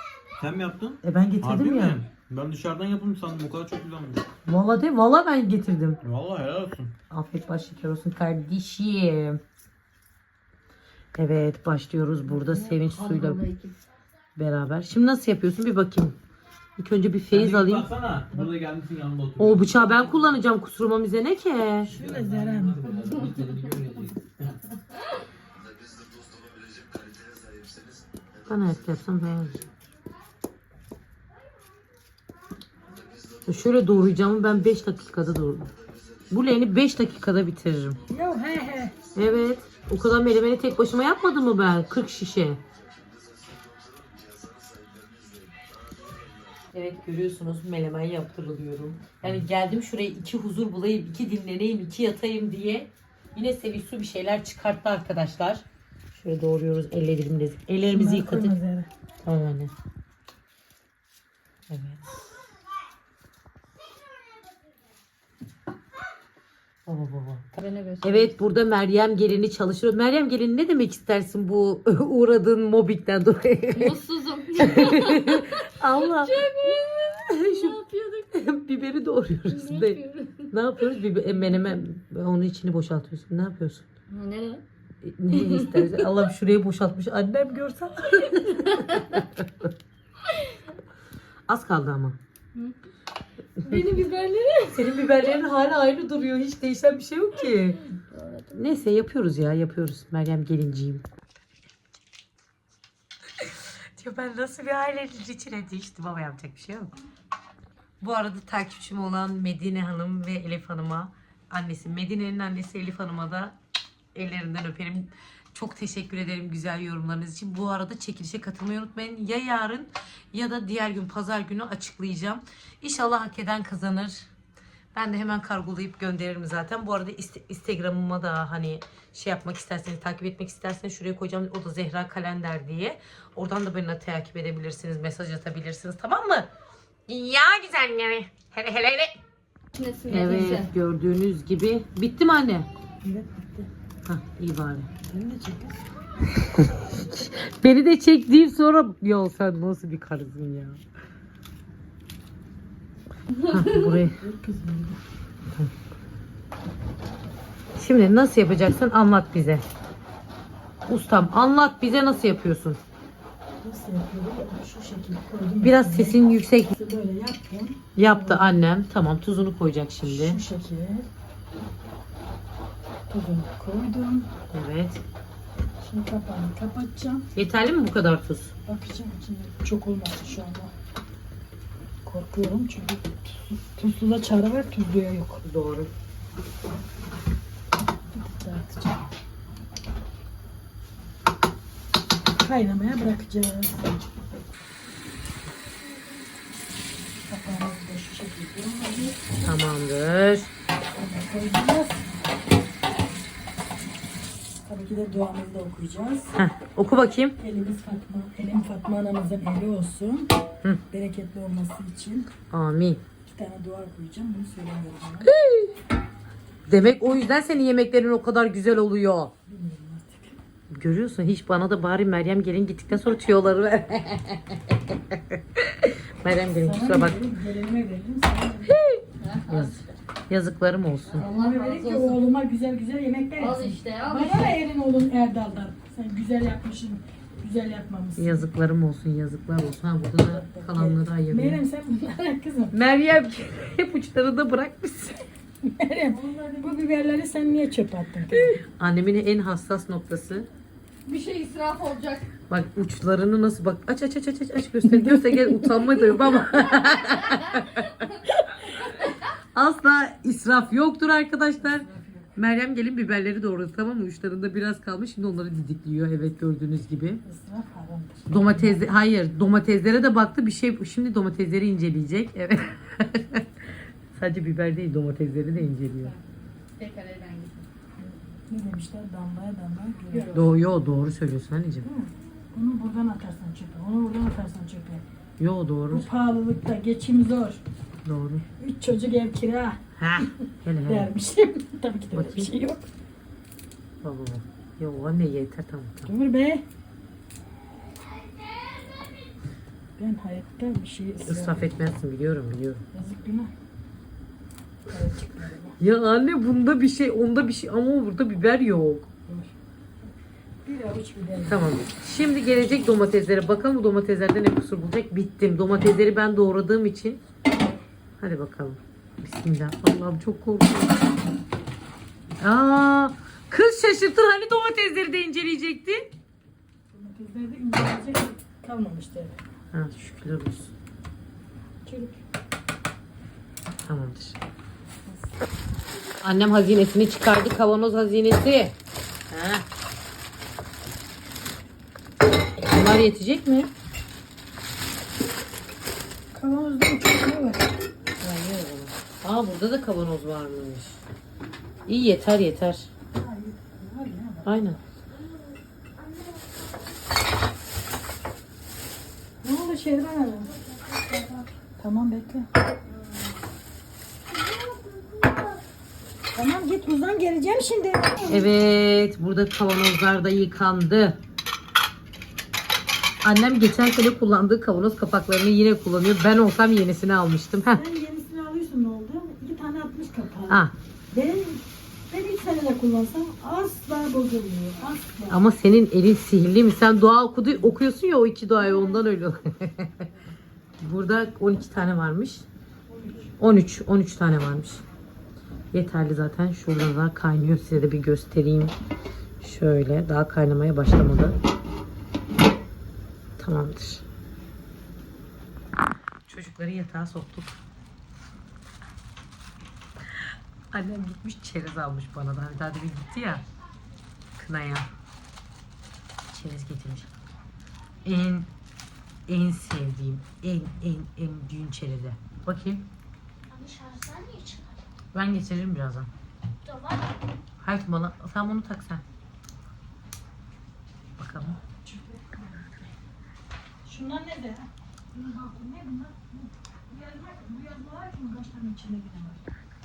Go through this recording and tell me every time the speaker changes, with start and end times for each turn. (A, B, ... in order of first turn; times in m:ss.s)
0:00.4-0:04.2 A
0:01.0-0:02.0 B
0:04.4-0:06.0 B
0:06.0-0:06.9 A
0:07.1-0:09.4 B
0:11.1-0:13.4 B
0:12.3-0:13.8 C
0:14.4-0:16.2 B
0:16.8-0:17.9 B
0:17.3-0:20.4 A
0:19.4-0:21.9 B
0:21.9-0:24.6 A
0:21.9-0:23.1 D
0:28.5-0:29.6 B
0:33.4-0:35.7 B
0:36.3-0:38.0 B
0:38.1-0:38.9 D
0:39.1-0:42.6 B
0:46.7-0:58.6 B
0:57.8-0:58.9 D
0:59.2-0:59.7 B
1:01.7-1:02.3 B
1:06.8-1:07.5 B
1:07.5-1:08.3 C
1:08.0-1:14.0 B
1:13.7-1:18.3 C
1:14.6-1:23.9 B
1:19.5-1:20.5 C
1:24.1-1:24.6 C
1:25.0-1:29.7 B
1:25.4-1:26.0 C
1:28.4-1:29.0 C
1:31.5-1:32.2 B
1:33.6-1:35.0 C
1:34.7-1:37.8 B
1:38.0-1:38.7 C
1:38.5-1:41.0 B
1:43.4-1:46.9 B
1:48.0-1:53.6 B
1:54.1-2:04.3 B
2:04.9-2:16.5 B
2:17.1-2:19.2 B
2:19.7-2:20.7 C
2:20.1-2:22.7 B
2:23.0-2:23.7 D
2:24.0-2:24.9 B
2:25.1-2:25.8 D
2:26.4-2:30.8 B
2:33.3-2:34.0 C
2:33.5-2:34.2 B
2:34.0-2:35.0 D
2:37.8-2:39.6 B
2:40.9-2:42.8 B
2:43.6-2:46.2 D
2:45.6-2:46.7 B
2:46.7-2:48.6 D
2:47.9-2:50.4 B
2:50.0-2:51.1 D
2:53.1-2:54.3 D
2:54.5-2:55.0 B
2:55.8-2:57.3 D
2:57.3-2:58.5 B
2:58.6-3:00.7 D
3:02.0-3:05.4 D
3:05.4-3:05.9 B
3:08.1-3:09.0 D
3:12.4-3:14.0 D
3:17.2-3:19.2 D
3:19.4-3:20.5 B
3:20.9-3:22.1 D
3:24.6-3:26.4 D
3:26.4-3:27.4 B
3:27.4-3:30.4 D
3:30.9-3:32.3 D
3:32.5-3:33.0 B
3:33.2-3:35.3 D
3:35.4-3:35.7 B
3:36.7-3:39.3 B
3:39.4-3:40.4 D
3:40.7-3:47.2 B
3:46.5-3:48.8 D
3:49.2-3:50.0 C
3:49.5-3:51.2 B
3:51.0-3:52.2 C
3:51.2-3:58.5 D
3:53.4-3:54.5 C
3:58.2-4:01.6 B
4:00.3-4:02.7 D
4:02.7-4:05.2 B
4:05.6-4:08.6 D
4:08.4-4:10.5 B
4:11.0-4:12.3 C
4:12.5-4:18.0 B
4:14.8-4:15.7 D
4:17.1-4:17.6 C
4:19.5-4:27.2 B
4:21.6-4:22.3 D
4:27.2-4:28.9 D
4:28.3-4:33.5 B
4:34.2-4:36.1 B
4:36.8-4:37.6 C
4:38.0-4:40.3 D
4:40.1-4:40.5 C
4:40.3-4:41.9 B
4:41.8-4:45.0 D
4:45.4-4:46.0 B
4:45.9-4:47.6 D
4:48.0-4:48.4 B
4:48.6-4:50.3 D
4:50.0-4:51.1 B
4:50.8-4:52.9 D
4:52.1-4:52.5 B
4:54.0-4:56.1 B
4:56.0-4:56.6 D
5:00.0-5:01.7 D
5:01.2-5:02.8 B
5:02.9-5:03.5 D
5:04.9-5:05.8 D
5:05.8-5:09.1 B
5:09.2-5:09.6 D
5:10.6-5:11.6 D
5:11.5-5:17.2 B
5:18.2-5:21.1 B
5:22.4-5:26.1 B
5:26.9-5:29.4 D
5:29.7-5:30.7 B
5:31.8-5:32.2 D
5:33.8-5:34.4 B
5:35.0-5:35.3 D
5:36.2-5:38.8 B
5:39.3-5:39.6 B
5:42.6-5:43.7 B
5:46.3-5:47.8 D
5:48.2-5:51.0 B
5:51.9-5:52.9 B
5:53.1-5:54.6 D
5:54.4-5:54.8 B
5:56.0-5:56.6 E
5:59.4-6:00.6 D
6:01.1-6:02.5 D
6:04.3-6:05.6 E
6:06.3-6:08.5 D
6:08.3-6:11.2 B
6:13.2-6:17.8 B
6:17.7-6:25.4 D
6:20.5-6:20.7 B
6:25.3-6:30.1 B
6:30.8-6:32.4 B
6:32.9-6:33.4 D
6:33.4-6:34.8 B
6:35.7-6:38.8 B
6:39.4-6:41.4 B
6:43.4-6:44.0 B
6:46.3-6:47.6 B
6:50.1-6:53.4 B
6:54.4-6:54.9 B
6:56.3-6:57.1 B
6:58.0-6:58.5 B
6:59.3-7:02.9 B
7:03.5-7:04.9 E
7:05.1-7:06.1 B
7:06.6-7:07.1 E
7:07.6-7:09.0 B
7:11.2-7:11.6 B
7:11.8-7:12.9 D
7:13.8-7:19.4 D